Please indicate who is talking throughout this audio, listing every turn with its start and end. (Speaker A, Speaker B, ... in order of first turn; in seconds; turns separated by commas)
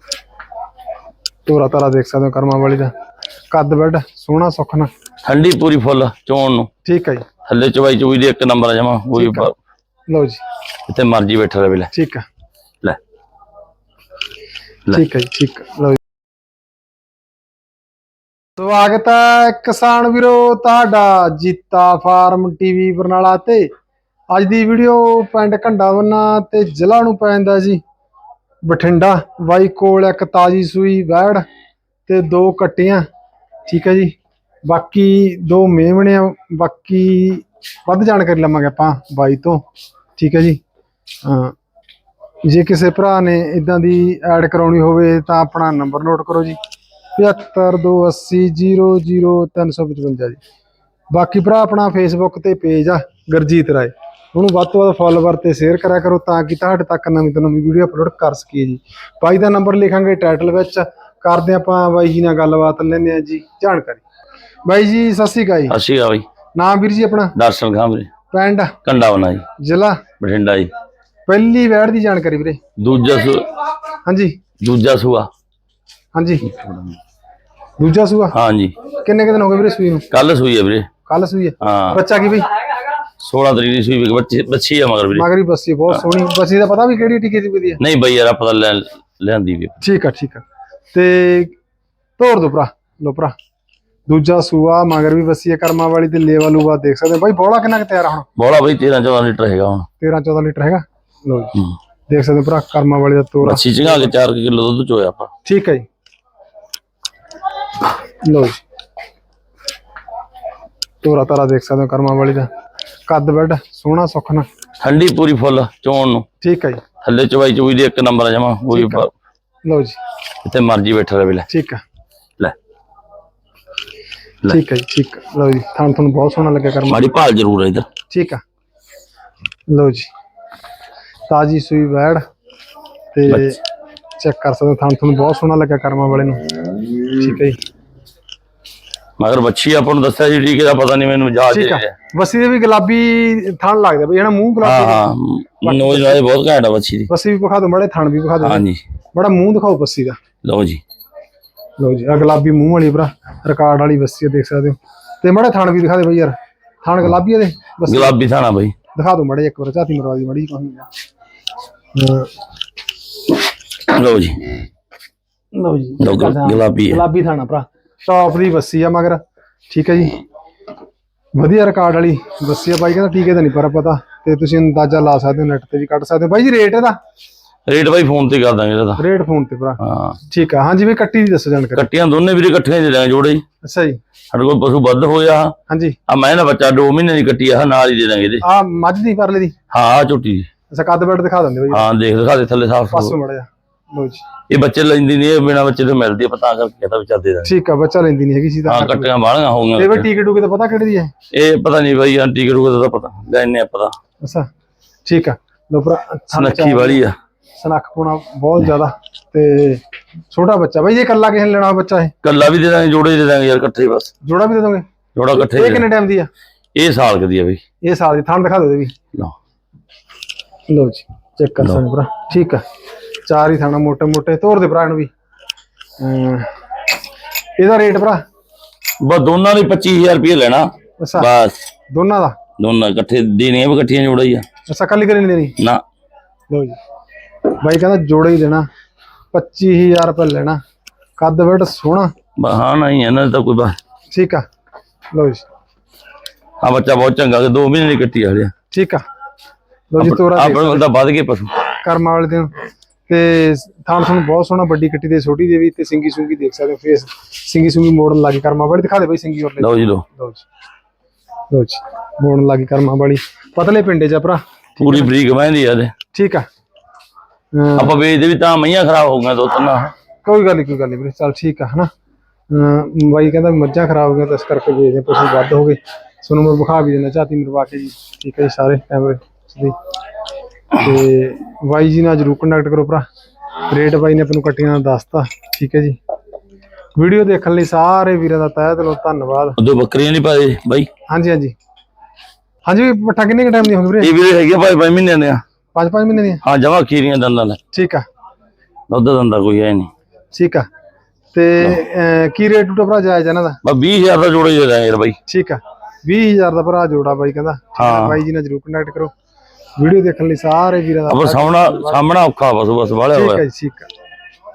Speaker A: 1.5-2.9, Speaker A: 3.5-4.9, Speaker B: 5.2-6.7, Speaker A: 6.8-7.2, Speaker B: 7.5-9.5, Speaker A: 9.2-9.5, Speaker A: 10.1-10.4, Speaker B: 10.9-11.9, Speaker A: 11.9-12.2, Speaker A: 14.9-16.0, Speaker A: 18.6-23.7, Speaker A: 24.3-27.8, Speaker A: 28.6-31.4, Speaker A: 32.1-33.1, Speaker A: 33.7-39.6, Speaker A: 40.2-40.6, Speaker A: 41.2-41.5, Speaker A: 42.4-46.6, Speaker A: 47.2-50.4, Speaker A: 51.1-64.0, Speaker A: 64.7-65.8, Speaker B: 65.7-66.2, Speaker A: 66.6-67.3, Speaker B: 67.4-68.1, Speaker A: 68.3-68.8, Speaker B: 68.8-69.5, Speaker A: 69.6-70.0, Speaker B: 70.2-70.7, Speaker A: 71.3-72.6, Speaker B: 72.8-73.5, Speaker A: 74.0-74.4, Speaker B: 74.6-75.3, Speaker A: 76.2-76.5, Speaker B: 76.4-77.0, Speaker A: 77.8-78.4, Speaker B: 78.3-78.8, Speaker A: 79.0-80.1, Speaker B: 80.1-80.9, Speaker A: 81.1-82.5, Speaker B: 81.6-82.0, Speaker B: 83.2-85.2, Speaker A: 85.1-87.8, Speaker B: 87.8-89.8, Speaker A: 89.8-91.5, Speaker A: 92.2-93.3, Speaker A: 94.1-98.3, Speaker B: 98.4-99.9, Speaker A: 100.0-104.1, Speaker B: 103.4-105.3, Speaker A: 105.5-105.9, Speaker A: 108.2-108.6, Speaker A: 111.0-112.5, Speaker A: 113.1-114.5, Speaker B: 114.8-116.3, Speaker A: 116.4-116.8, Speaker B: 117.0-119.1, Speaker A: 118.7-119.1, Speaker A: 119.7-120.0, Speaker B: 120.4-121.5, Speaker A: 121.5-121.8, Speaker A: 124.5-127.1, Speaker B: 126.9-127.9, Speaker A: 128.1-128.4, Speaker A: 129.7-130.1, Speaker A: 131.3-132.2, Speaker A: 133.1-133.6, Speaker A: 134.2-136.4, Speaker A: 137.2-137.6, Speaker B: 139.2-141.9, Speaker A: 141.5-145.0, Speaker B: 144.6-147.1, Speaker A: 145.6-146.3, Speaker A: 147.1-150.2, Speaker B: 148.4-148.8, Speaker B: 150.4-150.8, Speaker A: 151.8-158.2, Speaker B: 157.9-158.8, Speaker A: 158.9-160.9, Speaker A: 161.9-162.3, Speaker B: 163.9-164.6, Speaker A: 165.5-170.2, Speaker B: 166.0-167.0, Speaker A: 171.3-177.0, Speaker B: 177.7-179.0, Speaker A: 179.0-181.8, Speaker B: 179.8-180.2, Speaker B: 181.8-183.4, Speaker A: 183.6-184.0, Speaker B: 184.3-185.5, Speaker A: 185.7-186.0, Speaker B: 186.1-188.4, Speaker A: 188.4-189.6, Speaker B: 189.7-190.5, Speaker A: 190.7-191.9, Speaker B: 191.7-193.1, Speaker A: 192.9-194.2, Speaker B: 194.5-197.5, Speaker A: 197.4-199.1, Speaker B: 198.7-200.1, Speaker A: 199.8-201.1, Speaker B: 201.3-203.9, Speaker A: 204.2-204.5, Speaker A: 205.1-207.0, Speaker B: 206.3-207.2, Speaker A: 207.6-212.1, Speaker B: 212.2-214.1, Speaker A: 214.2-214.8, Speaker B: 215.2-215.9, Speaker A: 215.4-216.3, Speaker B: 216.8-217.6, Speaker A: 217.8-218.9, Speaker A: 220.7-222.6, Speaker A: 223.3-225.1, Speaker A: 226.0-226.5, Speaker A: 227.6-228.2, Speaker B: 229.0-231.6, Speaker A: 231.0-231.3, Speaker A: 231.9-232.4, Speaker B: 232.6-234.4, Speaker A: 234.7-235.6, Speaker A: 236.5-236.8, Speaker A: 237.6-238.7, Speaker A: 239.3-240.6, Speaker A: 241.2-242.1, Speaker B: 242.4-243.8, Speaker A: 244.1-244.4, Speaker A: 245.1-245.5, Speaker B: 246.6-248.5, Speaker A: 248.7-249.1, Speaker A: 249.9-250.8, Speaker B: 250.0-251.7, Speaker A: 251.8-252.5, Speaker A: 253.1-260.4, Speaker B: 259.6-260.0, Speaker A: 261.5-265.1, Speaker B: 264.8-265.9, Speaker A: 266.1-266.5, Speaker A: 267.5-267.9, Speaker B: 267.8-269.9, Speaker A: 270.2-271.9, Speaker A: 272.5-279.8, Speaker A: 280.8-283.1, Speaker A: 283.7-286.0, Speaker A: 287.0-289.6, Speaker B: 289.6-290.9, Speaker A: 291.1-291.6, Speaker A: 292.7-294.1, Speaker B: 294.0-295.4, Speaker A: 295.8-296.4, Speaker B: 296.4-297.6, Speaker A: 297.7-298.1, Speaker B: 298.9-299.9, Speaker A: 300.3-300.7, Speaker A: 301.3-303.6, Speaker B: 303.6-305.2, Speaker A: 305.3-309.1, Speaker B: 307.8-308.2, Speaker A: 309.8-312.0, Speaker B: 311.1-313.4, Speaker A: 313.1-313.9